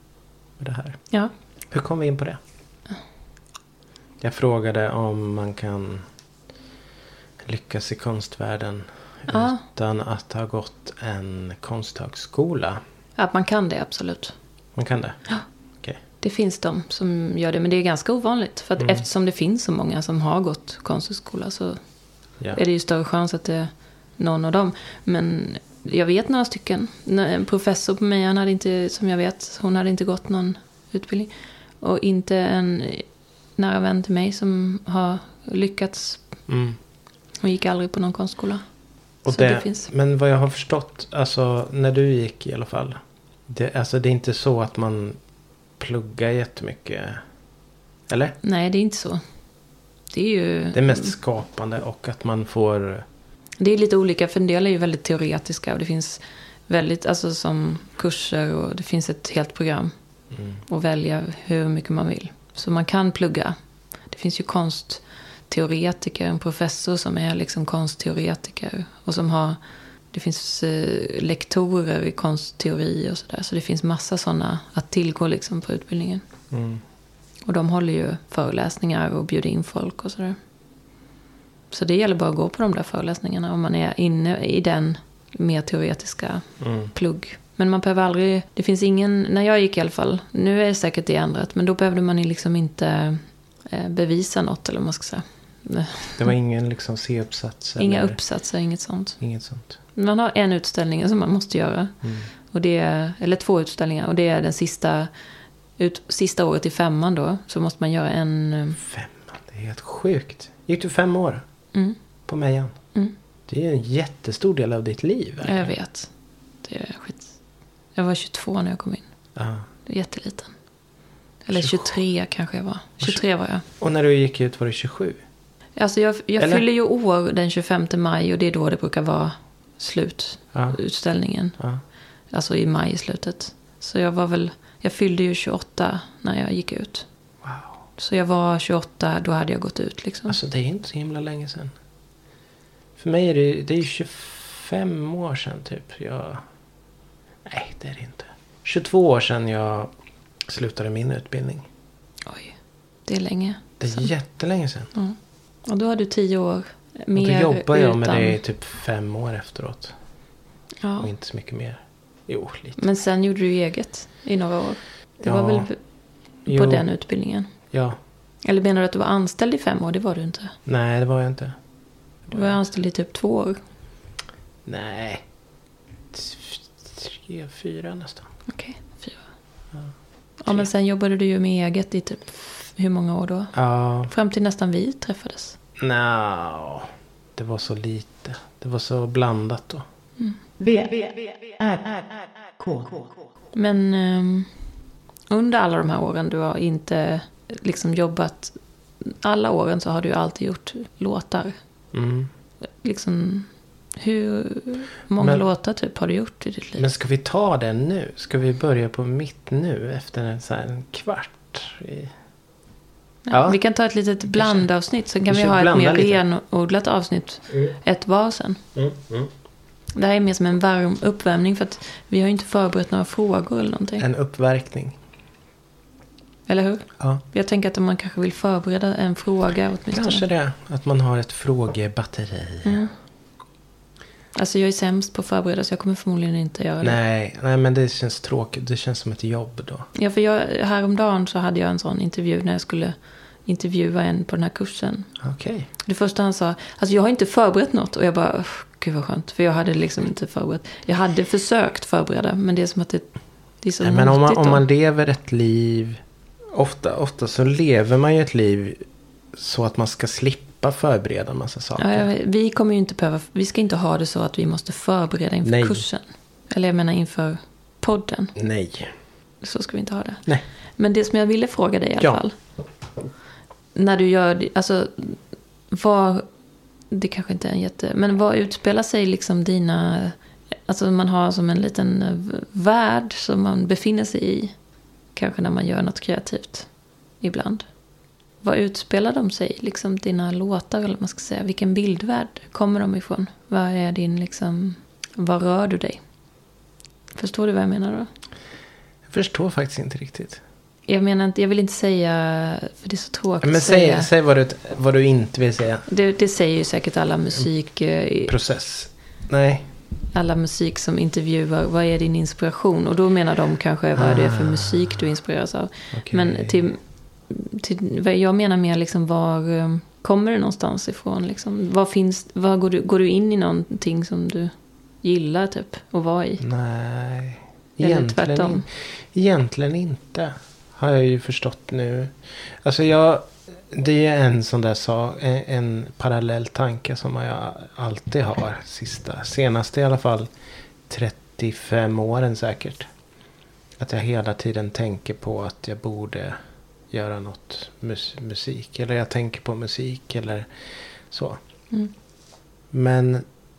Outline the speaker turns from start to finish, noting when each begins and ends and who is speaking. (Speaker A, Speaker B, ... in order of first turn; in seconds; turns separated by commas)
Speaker A: 0.6-1.1, Speaker A: 1.7-2.4, Speaker A: 4.2-6.0, Speaker A: 7.4-12.8, Speaker B: 9.3-9.6, Speaker B: 13.2-14.4, Speaker A: 14.7-16.0, Speaker B: 16.1-36.5, Speaker A: 18.8-19.0, Speaker A: 36.5-36.8, Speaker B: 37.4-39.9, Speaker A: 39.2-45.2, Speaker A: 45.8-47.2, Speaker A: 48.1-48.4, Speaker B: 48.4-49.2, Speaker B: 50.1-51.1, Speaker A: 50.7-53.0, Speaker B: 53.6-59.9, Speaker A: 60.3-60.6, Speaker B: 60.6-76.2, Speaker A: 76.5-76.8, Speaker B: 77.5-80.4, Speaker B: 81.7-96.2, Speaker A: 86.6-86.9, Speaker A: 96.2-98.6, Speaker B: 97.8-99.2, Speaker A: 99.2-99.7, Speaker B: 99.9-105.1, Speaker A: 102.0-102.3, Speaker B: 105.7-108.8, Speaker A: 108.8-111.4, Speaker A: 112.3-112.9, Speaker A: 113.5-115.7, Speaker B: 115.4-119.2, Speaker A: 119.3-119.6, Speaker B: 119.8-120.7, Speaker B: 121.4-123.6, Speaker A: 121.5-122.0, Speaker A: 123.0-125.2, Speaker B: 125.8-131.6, Speaker A: 126.4-126.6, Speaker A: 130.5-130.8, Speaker A: 131.5-131.8, Speaker B: 132.3-137.1, Speaker A: 137.4-137.8, Speaker B: 138.0-140.4, Speaker A: 140.3-141.7, Speaker A: 143.0-146.4, Speaker A: 147.4-149.9, Speaker A: 150.4-151.7, Speaker B: 152.2-154.1, Speaker A: 153.8-154.9, Speaker B: 154.9-158.4, Speaker A: 157.1-159.9, Speaker B: 160.8-161.1, Speaker A: 161.0-162.8, Speaker B: 162.8-167.5, Speaker A: 165.2-165.8, Speaker A: 166.4-166.9, Speaker A: 167.7-168.0, Speaker B: 168.4-170.6, Speaker A: 170.7-171.6, Speaker A: 172.2-172.6, Speaker B: 172.3-173.6, Speaker A: 174.6-175.2, Speaker A: 176.1-178.3, Speaker B: 178.5-179.5, Speaker A: 179.7-180.7, Speaker B: 180.4-185.6, Speaker A: 183.5-184.1, Speaker A: 185.8-189.8, Speaker C: 190.6-193.4, Speaker B: 193.5-201.6, Speaker A: 201.9-202.3, Speaker B: 202.8-206.8, Speaker A: 205.2-205.4, Speaker A: 206.8-212.1, Speaker B: 213.2-218.6, Speaker A: 213.3-216.2, Speaker A: 217.5-217.7, Speaker A: 218.7-219.3, Speaker B: 219.9-224.0, Speaker A: 224.0-225.0, Speaker B: 226.5-230.2, Speaker A: 229.9-232.8, Speaker B: 232.6-232.9, Speaker B: 234.3-237.0, Speaker A: 236.8-239.9, Speaker B: 239.9-245.2, Speaker A: 245.2-245.7, Speaker B: 245.8-254.6, Speaker A: 253.8-256.0, Speaker A: 256.5-262.1, Speaker B: 261.8-268.4, Speaker A: 265.4-265.9, Speaker A: 268.4-268.9, Speaker B: 269.4-272.3, Speaker B: 273.7-276.3, Speaker B: 276.9-287.8, Speaker B: 288.4-296.0, Speaker B: 297.1-298.1, Speaker A: 299.1-300.4, Speaker B: 300.9-304.1, Speaker A: 303.4-305.9, Speaker B: 305.9-308.3, Speaker A: 308.2-309.7, Speaker B: 310.1-326.4, Speaker A: 313.9-314.9, Speaker A: 315.9-316.6, Speaker A: 326.4-340.3, Speaker B: 327.8-328.6, Speaker A: 340.9-342.9, Speaker A: 343.8-346.4, Speaker A: 346.9-351.4, Speaker A: 352.7-353.2